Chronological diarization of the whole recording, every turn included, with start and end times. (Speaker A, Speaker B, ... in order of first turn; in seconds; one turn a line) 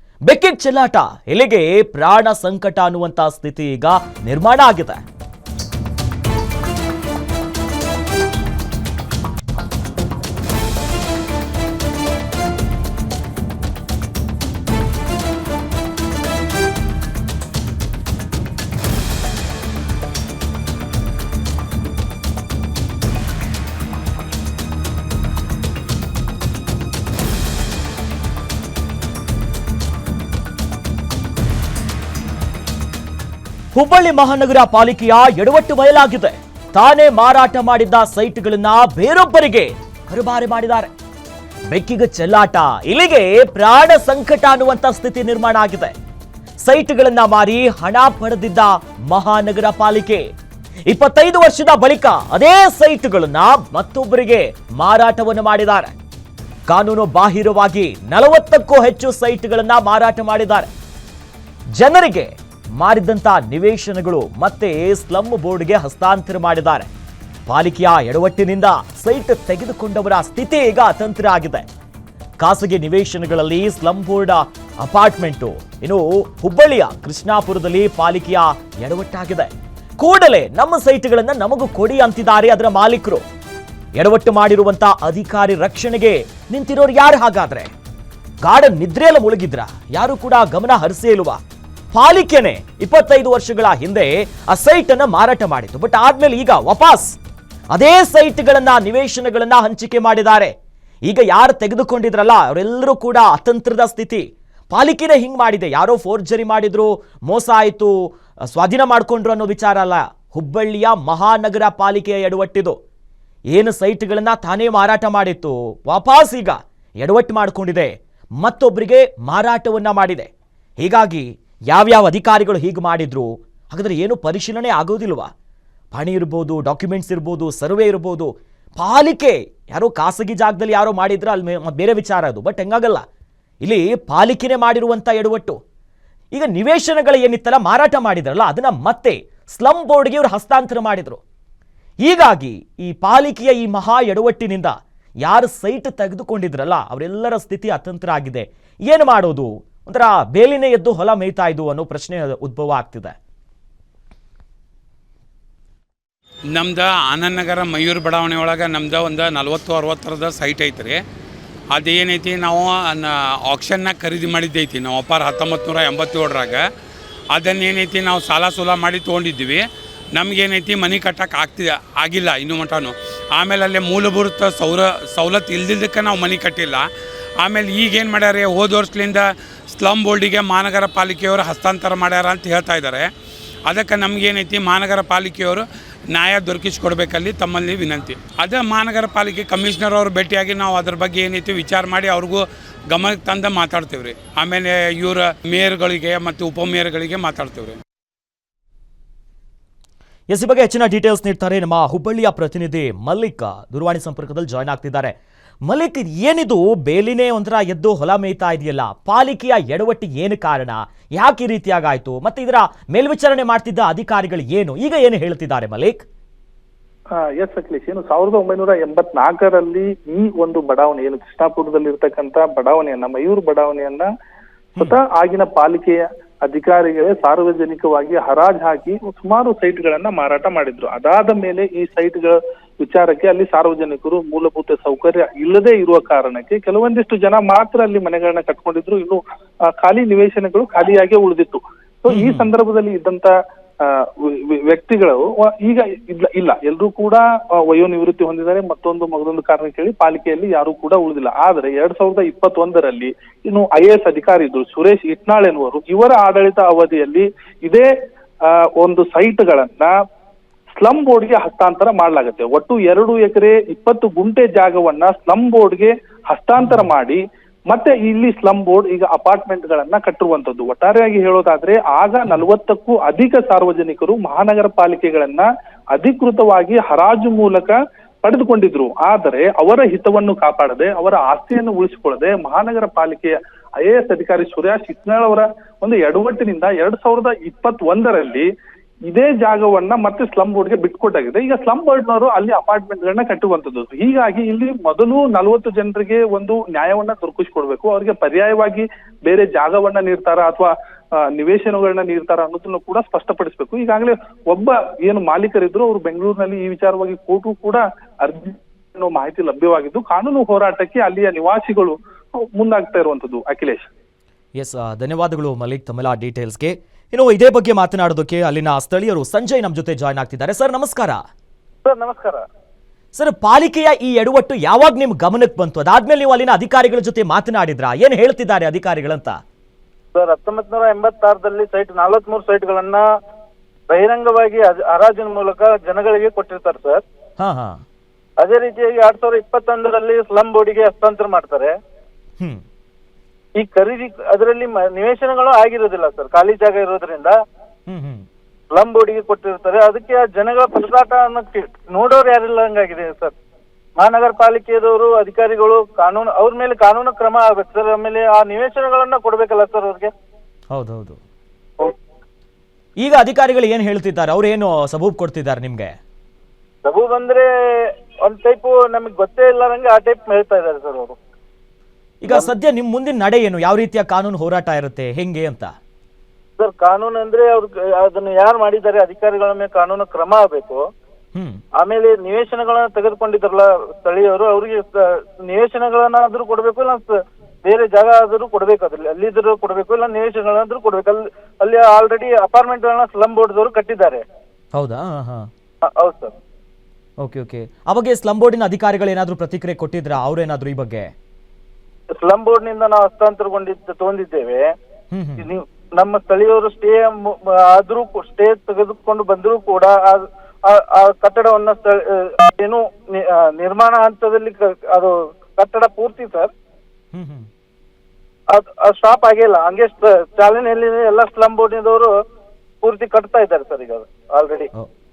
Speaker A: 0.3-5.0
Speaker A: 33.7-40.9
Speaker A: 41.7-45.9
Speaker A: 46.6-50.2
Speaker A: 50.9-55.9
Speaker A: 56.7-60.7
Speaker A: 61.8-66.9
Speaker A: 67.5-71.6
Speaker A: 72.4-83.2
Speaker A: 84.0-87.7
Speaker A: 88.4-91.4
Speaker A: 91.9-97.2
Speaker A: 97.7-100.5
Speaker A: 101.1-112.8
Speaker A: 113.5-120.3
Speaker A: 120.8-125.3
Speaker A: 125.9-133.0
Speaker A: 133.6-135.6
Speaker A: 136.3-141.2
Speaker A: 142.0-153.1
Speaker B: 156.5-161.0
Speaker B: 161.7-166.6
Speaker B: 167.3-169.6
Speaker B: 170.1-176.8
Speaker B: 177.4-183.1
Speaker B: 183.7-197.8
Speaker A: 200.3-205.1
Speaker A: 205.7-216.0
Speaker C: 217.1-224.1
Speaker C: 224.8-239.2
Speaker C: 239.8-243.3
Speaker A: 242.1-242.5
Speaker C: 243.8-257.9
Speaker C: 258.5-259.9
Speaker C: 260.8-288.5
Speaker A: 266.6-266.9
Speaker C: 289.1-300.7
Speaker C: 301.3-313.9
Speaker A: 314.6-321.2
Speaker D: 321.8-322.4
Speaker A: 323.1-329.4
Speaker D: 330.1-333.0
Speaker D: 333.9-337.0
Speaker A: 337.4-337.8
Speaker D: 338.4-341.7
Speaker D: 343.6-347.3
Speaker A: 347.9-348.2
Speaker D: 348.7-353.3
Speaker D: 354.0-360.1
Speaker A: 360.7-361.2
Speaker A: 363.0-365.9
Speaker D: 366.8-367.5
Speaker D: 368.2-371.1
Speaker A: 372.2-375.7
Speaker D: 376.6-380.8
Speaker A: 381.3-381.6
Speaker D: 381.8-387.1
Speaker D: 387.6-394.2
Speaker A: 394.7-395.5
Speaker D: 395.9-396.3
Speaker A: 397.2-401.1
Speaker D: 402.2-404.6
Speaker A: 405.1-405.4
Speaker D: 405.4-416.5
Speaker A: 417.1-417.5
Speaker D: 418.5-422.1
Speaker D: 422.8-424.7